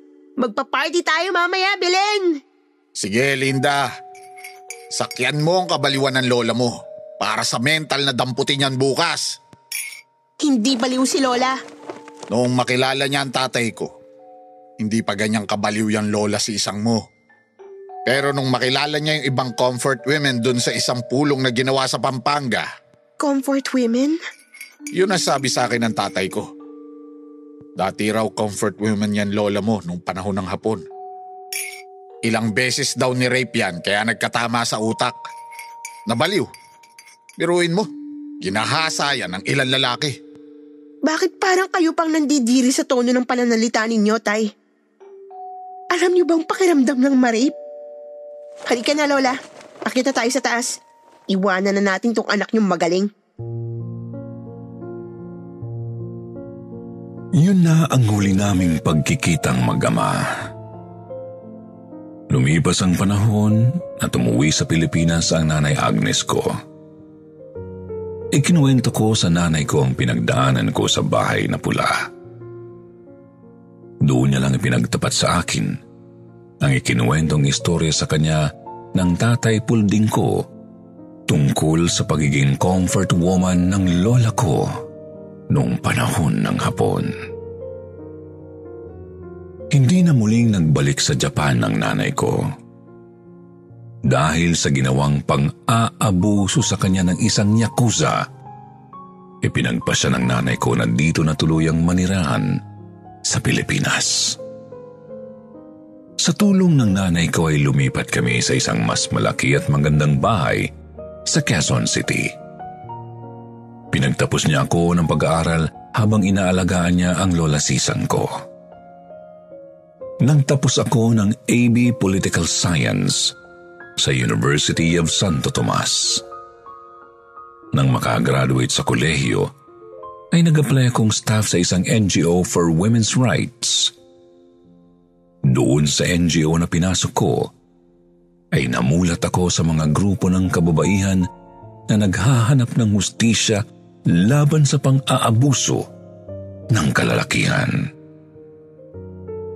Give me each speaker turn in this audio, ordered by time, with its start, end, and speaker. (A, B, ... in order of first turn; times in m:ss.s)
0:00.4-0:02.4 A
0:03.0-0:03.8 B
0:04.9-0:09.4 B
0:10.4-0:11.6 A
0:12.3-0:13.9 B
0:14.8-0:17.0 B
0:18.1-0:22.7 B
0:23.2-0:24.2 A
0:25.0-0:26.5 B
0:27.8-0:30.8 B
0:32.2-0:35.2 B
0:36.1-0:36.5 B
0:37.4-0:37.9 B
0:38.4-0:40.2 B
0:41.0-0:44.5 A
0:45.9-0:47.5 A
0:48.7-0:50.8 A
0:51.3-0:53.1 A
0:57.4-1:00.2 C
1:02.3-1:06.5 C
1:08.3-1:12.1 C
1:14.0-1:15.8 C
1:16.6-1:20.4 C
1:21.3-1:24.7 C
1:25.5-1:27.1 C
1:29.7-1:32.4 C
1:34.1-1:38.2 C
1:39.4-1:42.6 C
1:43.2-1:44.4 C
1:46.2-1:50.7 C
1:51.3-1:52.3 C
1:53.9-1:58.3 C
2:00.2-2:03.3 C
2:04.0-2:06.2 C
2:07.7-2:09.5 C
2:10.3-2:13.9 C
2:15.5-2:17.5 C
2:18.5-2:21.2 C
2:21.9-2:25.9 C
2:26.7-2:27.8 C